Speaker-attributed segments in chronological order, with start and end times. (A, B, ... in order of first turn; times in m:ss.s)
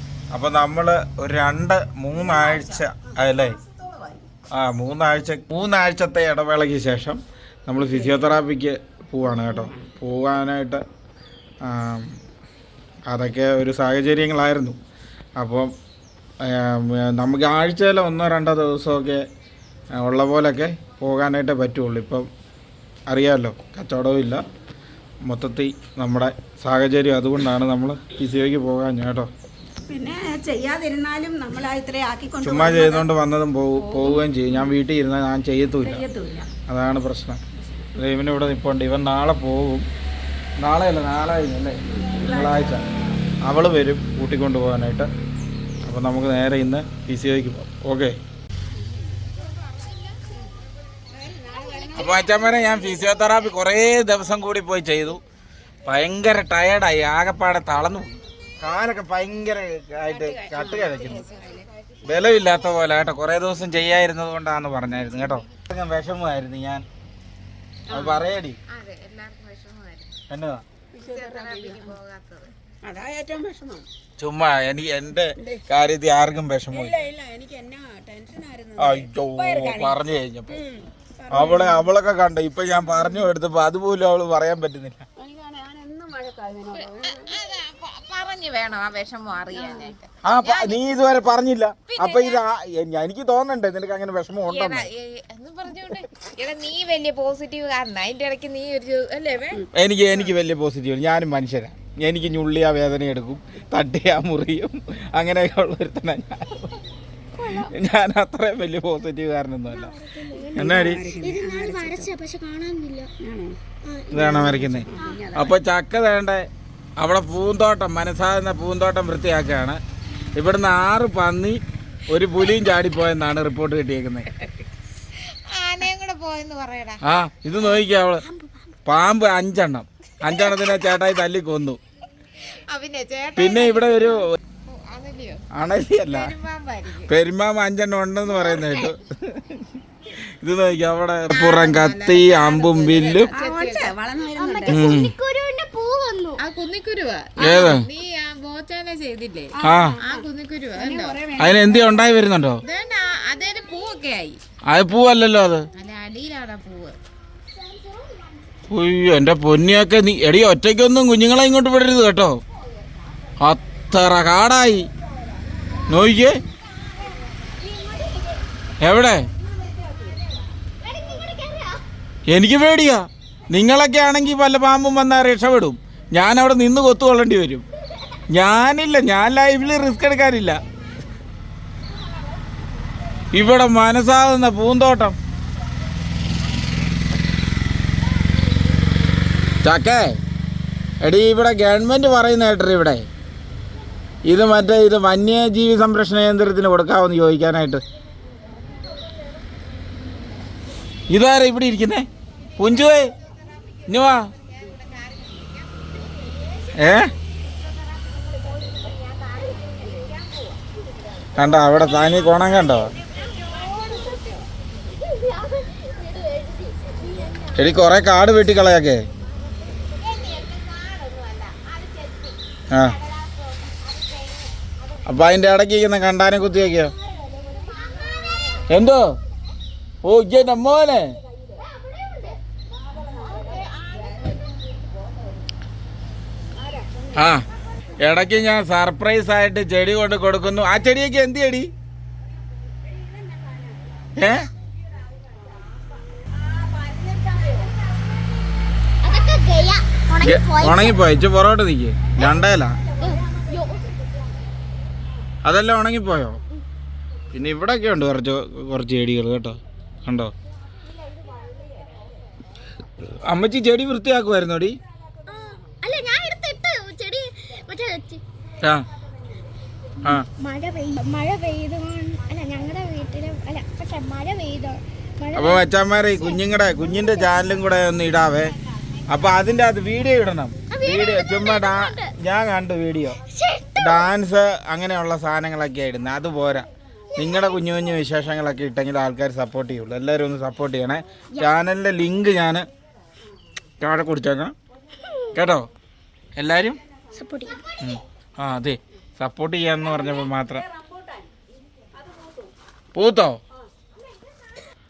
0:00.3-0:03.6 A
0:02.2-0:04.2 B
0:04.5-0:10.8 A
0:07.8-0:08.2 C
0:09.2-0:09.9 C
0:11.6-0:12.2 A
0:13.1-0:14.8 A
0:15.4-0:15.7 A
0:16.4-0:19.2 A
0:19.9-0:22.3 A
0:23.1-0:24.4 A
0:25.2-0:29.3 A
0:29.9-0:33.1 C
0:32.4-0:36.0 A
0:33.8-0:34.8 C
0:35.8-0:36.5 C
0:36.7-0:37.4 A
0:38.0-0:39.9 A
0:40.6-0:42.8 A
0:41.9-0:43.2 C
0:43.4-0:45.1 A
0:45.8-0:48.2 A
0:48.7-0:49.2 C
0:49.3-0:50.2 B
0:51.1-0:53.0 C
0:51.5-0:52.9 B
0:52.0-0:55.2 A
0:55.8-1:01.2 A
1:00.1-1:01.7 C
1:00.8-1:02.8 B
1:02.0-1:06.8 A
1:05.1-1:05.6 B
1:07.9-1:10.2 B
1:07.9-1:08.6 A
1:10.3-1:10.6 A
1:10.9-1:11.9 C
1:11.0-1:12.5 B
1:12.8-1:13.9 C
1:14.2-1:16.9 A
1:15.4-1:15.6 C
1:16.7-1:20.0 C
1:18.8-1:20.6 A
1:20.5-1:21.9 C
1:21.3-1:25.0 A
1:22.9-1:23.3 C
1:25.2-1:27.4 C
1:26.8-1:30.8 B
1:29.5-1:29.9 C
1:30.2-1:34.9 A
1:31.9-1:32.4 B
1:34.5-1:40.3 B
1:39.7-1:46.8 A
1:47.4-1:47.7 D
1:47.4-1:49.9 A
1:49.7-1:53.1 D
1:50.4-1:52.1 C
1:50.6-1:51.0 A
1:53.2-1:53.5 C
1:53.8-1:55.2 D
1:54.1-1:59.8 A
1:54.1-1:55.6 C
2:00.3-2:04.3 A
2:05.2-2:07.0 B
2:07.0-2:08.2 A
2:08.2-2:08.7 D
2:08.8-2:11.8 A
2:12.7-2:15.5 B
2:13.4-2:14.3 A
2:15.5-2:16.3 A
2:16.0-2:17.1 B
2:17.1-2:19.8 A
2:18.3-2:19.0 D
2:20.4-2:23.3 A
2:21.3-2:23.9 B
2:23.3-2:24.9 C
2:24.3-2:26.4 D
2:24.7-2:25.1 A
2:26.4-2:31.2 B
2:27.4-2:27.8 A
2:27.4-2:27.8 C
2:29.5-2:32.3 C
2:29.6-2:30.0 A
2:31.4-2:32.6 A
2:32.6-2:34.4 B
2:34.7-2:35.7 A
2:35.8-2:37.0 B
2:37.6-2:38.5 D
2:38.7-2:42.4 A
2:43.4-2:44.9 A
2:45.9-2:46.4 A
2:47.0-2:48.4 D
2:48.8-2:49.3 A
2:49.4-2:50.3 C
2:50.8-2:51.8 D
2:52.3-2:57.6 A
2:58.3-3:00.6 A
3:03.3-3:05.2 A
3:09.6-3:10.2 A
3:11.0-3:13.1 A
3:14.2-3:17.8 A
3:21.1-3:23.1 A
3:22.4-3:26.8 B
3:23.9-3:24.3 A
3:26.8-3:27.1 A
3:27.4-3:30.6 B
3:31.4-3:32.9 A
3:31.6-3:34.5 B
3:35.5-3:37.1 B
3:37.2-3:37.5 D
3:37.5-3:39.0 A
3:39.9-3:45.4 B
3:42.7-3:43.0 A
3:45.1-3:46.9 A
3:46.7-3:48.5 D
3:47.7-3:48.7 B
3:48.7-3:49.1 A
3:50.0-3:51.1 A
3:52.7-3:55.4 C
3:53.0-3:54.6 B
3:56.6-3:57.4 C
3:57.2-3:57.4 A
3:58.0-4:01.7 A
4:02.8-4:03.9 C
4:04.2-4:04.5 A
4:05.2-4:05.5 C
4:06.1-4:07.8 C
4:09.0-4:11.0 D
4:10.2-4:12.8 A
4:12.2-4:13.9 C
4:13.0-4:13.8 D
4:15.4-4:16.4 A
4:17.3-4:20.3 A
4:23.2-4:24.8 A
4:25.3-4:28.2 D
4:30.1-4:37.4 D
4:35.4-4:38.6 A
4:39.1-4:43.2 A
4:40.7-4:42.1 D
4:43.2-4:44.1 D
4:43.8-4:52.7 A
4:53.8-4:54.5 A
4:55.0-4:55.3 D
4:55.3-4:55.7 A
4:56.4-4:56.8 A
4:57.2-4:57.8 D
4:57.8-5:00.6 A
4:59.8-5:01.3 C
5:01.9-5:02.5 C
5:02.9-5:03.4 A